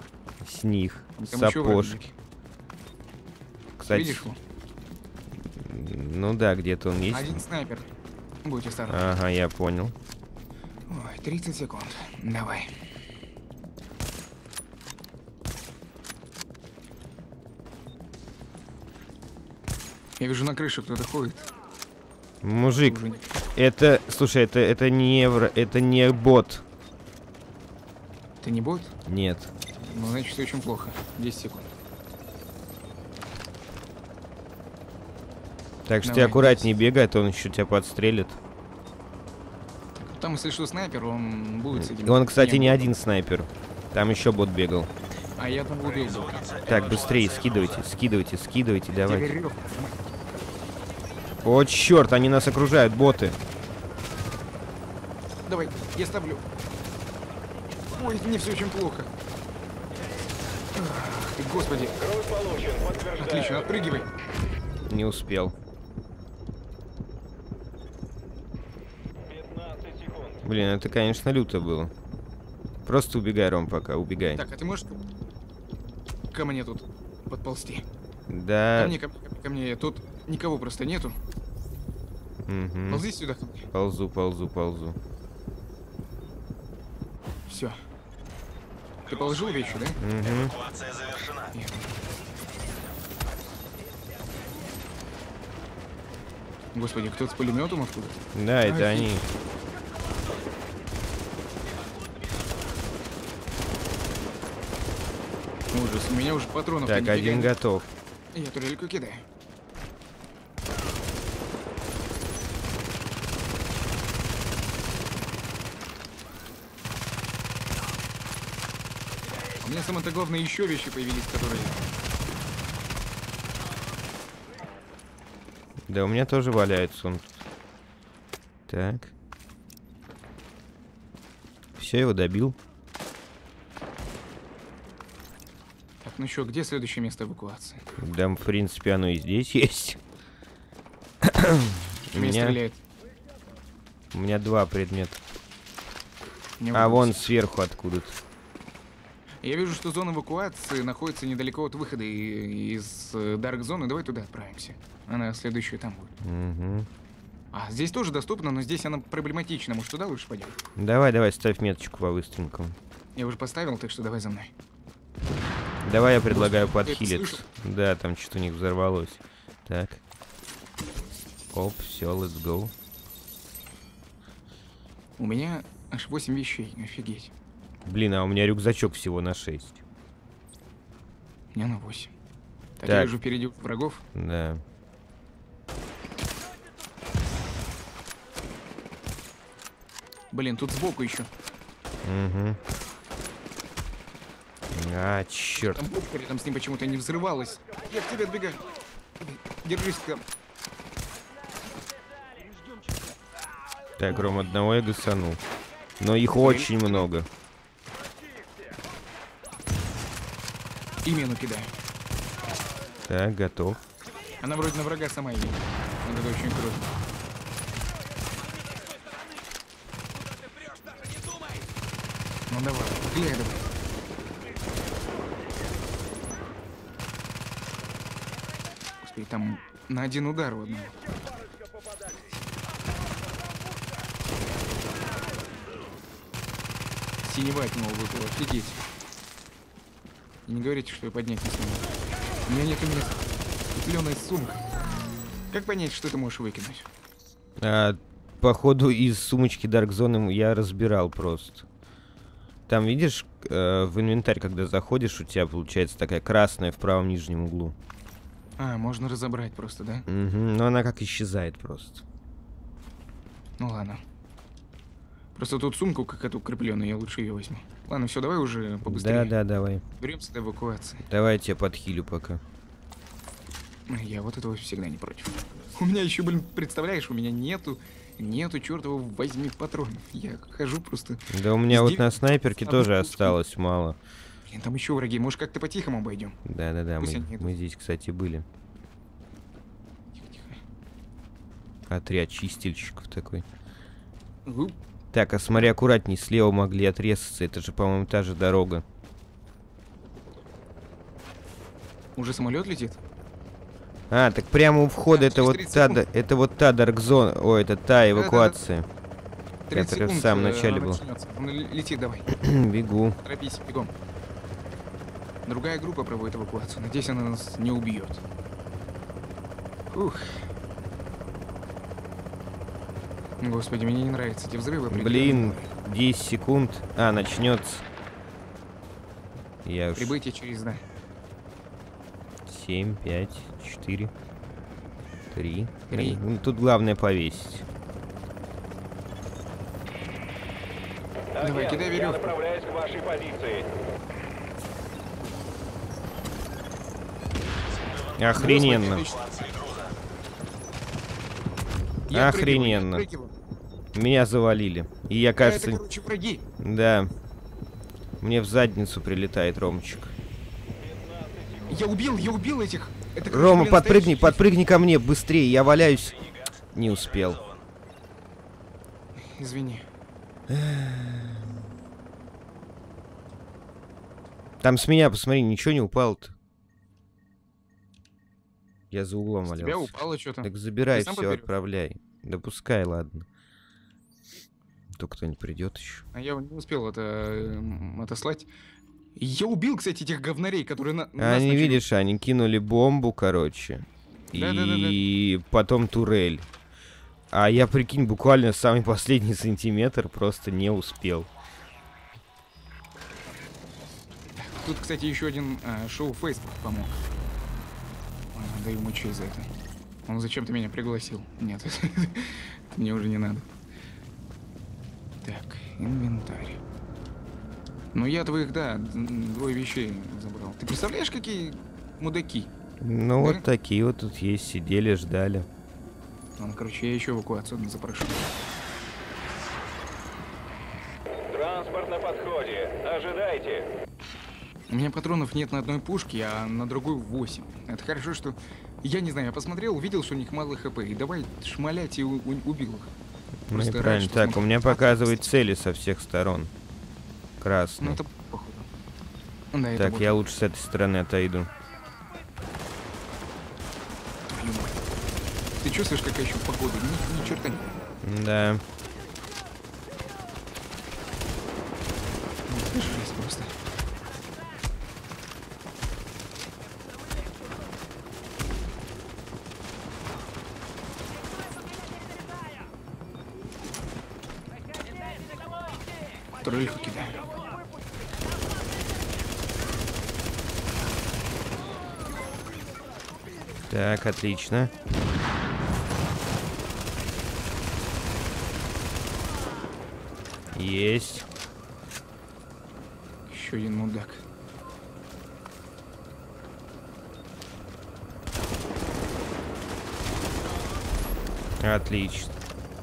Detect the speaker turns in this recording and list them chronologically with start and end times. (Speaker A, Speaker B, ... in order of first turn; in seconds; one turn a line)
Speaker A: 0.4-2.0
Speaker B: 1.2-2.1
Speaker A: 3.8-4.3
Speaker B: 3.9-4.4
Speaker A: 5.5-7.4
Speaker B: 7.1-7.9
Speaker B: 8.4-9.1
Speaker A: 8.9-9.9
Speaker B: 10.9-12.7
Speaker B: 20.2-21.5
Speaker A: 22.4-23.0
Speaker B: 22.8-23.2
Speaker A: 23.5-26.6
Speaker B: 28.4-28.9
Speaker A: 29.1-29.5
Speaker B: 29.8-31.7
Speaker A: 35.9-38.4
Speaker B: 36.0-36.7
Speaker B: 40.0-42.9
Speaker A: 41.7-44.9
Speaker B: 45.4-46.5
Speaker C: 45.8-47.9
Speaker A: 46.6-49.3
Speaker B: 49.0-50.0
Speaker A: 51.4-53.4
Speaker B: 55.5-56.4
Speaker B: 57.9-59.1
Speaker B: 60.7-62.0
Speaker C: 62.0-63.9
Speaker B: 63.1-64.1
Speaker A: 64.9-65.5
Speaker C: 69.2-70.5
Speaker A: 70.4-71.9
Speaker A: 72.8-74.5
Speaker B: 74.3-75.0
Speaker B: 76.3-77.9
Speaker A: 78.3-79.0
Speaker B: 78.8-81.2
Speaker A: 82.5-83.1
Speaker B: 82.9-83.7
Speaker A: 83.7-85.0
Speaker B: 87.5-87.8
Speaker B: 89.1-90.0
Speaker C: 89.1-91.5
Speaker A: 90.0-90.5
Speaker B: 91.5-91.9
Speaker B: 96.7-99.2
Speaker A: 98.3-99.2
Speaker B: 105.7-107.5
Speaker A: 106.9-107.9
Speaker B: 108.3-109.3
Speaker B: 119.6-121.8
Speaker A: 125.9-127.4
Speaker A: 128.7-129.1
Speaker A: 131.8-132.6
Speaker B: 136.0-137.9
Speaker A: 138.0-140.0
Speaker A: 141.2-142.6
Speaker B: 142.1-142.8
Speaker A: 144.1-145.2
Speaker B: 146.6-147.3
Speaker A: 146.7-148.2
Speaker B: 149.4-156.2
Speaker A: 156.2-156.9
Speaker B: 157.5-160.6
Speaker A: 160.8-162.8
Speaker B: 163.2-164.5
Speaker A: 165.8-170.0
Speaker B: 166.3-167.4
Speaker A: 171.5-172.7
Speaker B: 175.2-177.3
Speaker A: 177.8-179.8
Speaker B: 181.5-182.1
Speaker B: 182.8-184.0
Speaker A: 182.8-183.1
Speaker A: 184.2-184.6
Speaker B: 190.3-191.3
Speaker A: 192.0-192.6
Speaker A: 194.7-195.8
Speaker B: 195.6-198.6
Speaker B: 199.2-200.2
Speaker A: 204.0-205.4
Speaker A: 206.0-207.3
Speaker B: 206.4-207.1
Speaker B: 211.0-211.8
Speaker A: 213.1-213.8
Speaker B: 214.4-216.9
Speaker B: 222.5-223.7
Speaker B: 229.0-230.9
Speaker B: 237.2-238.8
Speaker B: 240.5-241.9
Speaker B: 242.5-243.2
Speaker B: 243.7-244.6
Speaker B: 245.5-246.9
Speaker A: 247.6-251.7
Speaker A: 252.7-257.8
Speaker B: 258.6-260.1
Speaker A: 260.1-262.0
Speaker B: 263.6-264.0
Speaker B: 265.4-269.3
Speaker A: 268.9-269.8
Speaker B: 270.0-271.1
Speaker A: 271.1-272.4
Speaker B: 273.9-282.1
Speaker A: 281.3-284.0
Speaker B: 282.6-283.4
Speaker B: 284.5-286.4
Speaker A: 286.4-288.5
Speaker B: 287.0-287.5
Speaker B: 290.2-290.6
Speaker A: 291.9-293.5
Speaker B: 294.5-294.8
Speaker A: 295.1-298.9
Speaker B: 302.2-303.0
Speaker A: 304.1-308.9
Speaker B: 305.1-306.0
Speaker B: 308.1-308.6
Speaker B: 309.7-312.4
Speaker A: 309.7-311.0
Speaker A: 312.3-313.2
Speaker B: 313.2-313.9
Speaker B: 315.5-318.2
Speaker B: 319.9-320.4
Speaker B: 323.4-325.7
Speaker A: 324.9-327.8
Speaker A: 329.6-330.2
Speaker B: 330.0-330.9
Speaker A: 332.5-334.1
Speaker A: 335.3-337.7
Speaker B: 335.9-336.2
Speaker C: 341.4-343.7
Speaker B: 341.4-342.3
Speaker C: 347.7-350.0
Speaker A: 348.2-349.1
Speaker B: 348.4-349.2
Speaker B: 352.1-353.3
Speaker A: 352.1-353.1
Speaker A: 353.9-355.8
Speaker B: 355.4-356.4
Speaker A: 356.6-357.1
Speaker A: 358.2-360.1
Speaker C: 360.7-362.0
Speaker B: 361.7-364.5
Speaker A: 363.3-366.1
Speaker C: 365.8-367.6
Speaker A: 366.8-367.4
Speaker B: 369.2-369.9
Speaker A: 370.5-371.6
Speaker A: 374.6-376.4
Speaker A: 378.9-383.3
Speaker B: 379.5-381.5
Speaker A: 385.0-386.1
Speaker B: 386.1-388.5
Speaker B: 389.2-391.8
Speaker A: 391.2-396.5
Speaker B: 394.3-395.0
Speaker A: 397.3-401.3
Speaker B: 404.4-407.1
Speaker B: 408.3-409.5
Speaker B: 410.1-413.5
Speaker B: 415.2-416.6
Speaker B: 417.9-422.5
Speaker A: 422.8-425.5
Speaker B: 426.4-428.3
Speaker C: 431.3-433.7
Speaker B: 434.7-442.9
Speaker A: 443.5-446.5
Speaker B: 443.5-445.3
Speaker A: 447.4-448.0
Speaker B: 447.8-448.7
Speaker B: 449.5-450.1
Speaker A: 449.8-451.5
Speaker B: 454.3-454.8
Speaker B: 455.6-457.7
Speaker A: 458.0-458.6
Speaker B: 462.5-463.5
Speaker B: 476.4-477.2
Speaker A: 483.7-484.7
Speaker A: 490.5-491.3
Speaker B: 493.3-494.2
Speaker A: 501.6-502.3